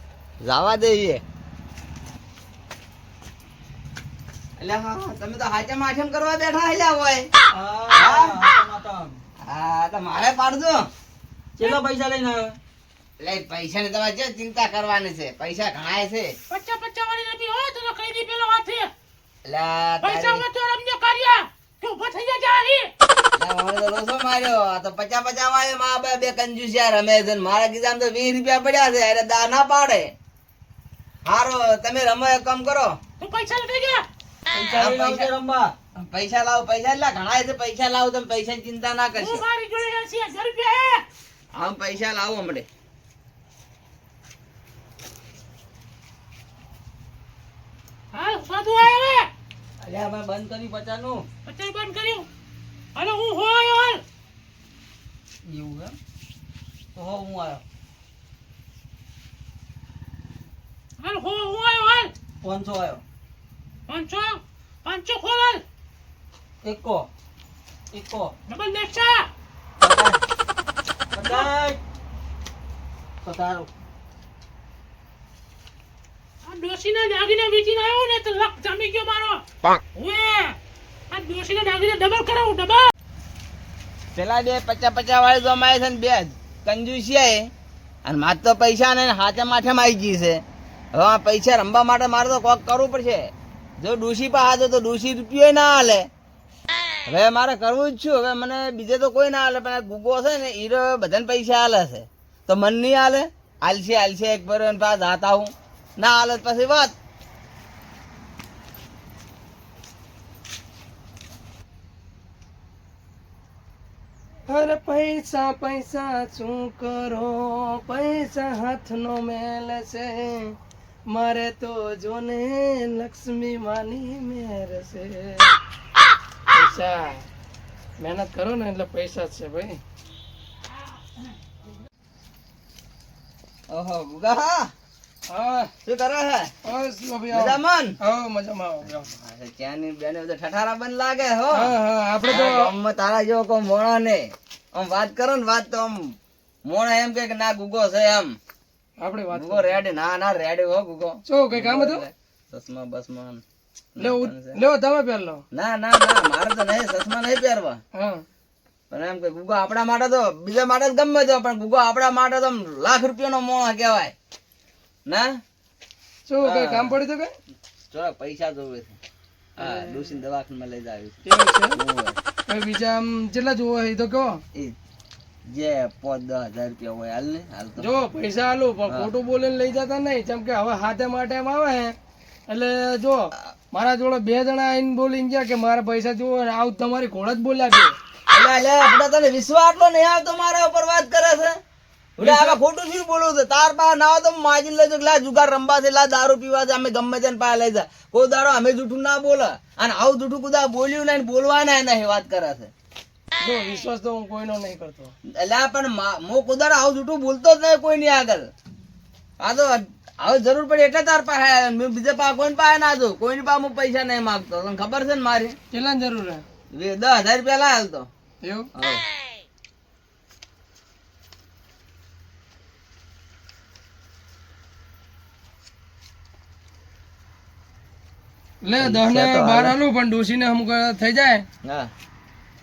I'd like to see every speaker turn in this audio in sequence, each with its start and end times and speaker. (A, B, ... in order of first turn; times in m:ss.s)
0:00.4-0:01.2 A
0:04.6-0:07.3 A
0:07.5-0:09.2 B
0:07.9-0:08.4 A
0:09.4-0:10.9 A
0:11.6-0:12.6 B
0:13.2-0:16.3 A
0:16.5-0:18.9 C
0:19.5-0:20.4 A
0:20.0-0:22.9 C
0:23.4-0:30.1 A
0:31.3-0:33.0 A
0:33.2-0:34.1 C
0:34.5-0:35.8 B
0:34.7-0:35.3 A
0:36.0-0:39.4 A
0:39.2-0:41.0 C
0:41.6-0:42.7 A
0:48.1-0:49.3 C
0:49.8-0:51.3 B
0:51.4-0:52.3 C
0:53.0-0:54.0 C
0:55.4-0:56.0 B
0:56.9-0:57.6 B
1:01.0-1:02.1 C
1:02.4-1:03.0 B
1:03.9-1:05.6 C
1:06.6-1:07.1 B
1:07.9-1:08.3 B
1:08.5-1:09.3 C
1:09.8-1:10.2 B
1:11.1-1:11.8 B
1:13.2-1:13.7 B
1:16.4-1:19.4 C
1:20.0-1:20.6 C
1:21.1-1:22.9 C
1:24.1-1:27.5 A
1:28.0-1:30.4 A
1:30.9-1:33.3 A
1:33.8-1:36.0 A
1:37.1-1:46.9 A
1:54.5-2:00.6 D
2:01.1-2:05.5 D
2:06.5-2:07.3 D
2:08.0-2:09.8 D
2:13.7-2:14.7 A
2:15.3-2:15.7 D
2:15.8-2:16.5 A
2:16.6-2:19.1 D
2:17.3-2:18.0 A
2:18.9-2:21.7 A
2:21.5-2:22.7 D
2:22.3-2:26.1 A
2:26.7-2:28.4 A
2:29.0-2:29.8 D
2:29.3-2:33.4 A
2:31.3-2:32.0 D
2:34.0-2:34.6 A
2:34.0-2:35.4 D
2:35.5-2:37.8 A
2:38.0-2:38.2 D
2:38.9-2:44.1 A
2:46.3-2:47.3 D
2:46.4-2:47.0 A
2:47.9-2:49.0 A
2:49.6-2:51.2 A
2:51.2-2:51.8 D
2:51.7-2:52.2 A
2:52.5-2:54.4 D
2:55.5-2:57.9 A
2:57.8-3:02.0 D
3:02.5-3:08.0 D
3:08.3-3:11.6 A
3:12.2-3:22.7 A
3:12.2-3:12.6 D
3:23.4-3:25.1 D
3:25.4-3:28.5 A
3:29.4-3:35.6 A
3:35.7-3:36.4 D
3:36.7-3:38.1 A
3:38.4-3:38.7 D
3:38.8-3:39.0 A
3:48.6-3:51.5 D
3:48.8-3:49.8 A
3:51.6-3:51.9 A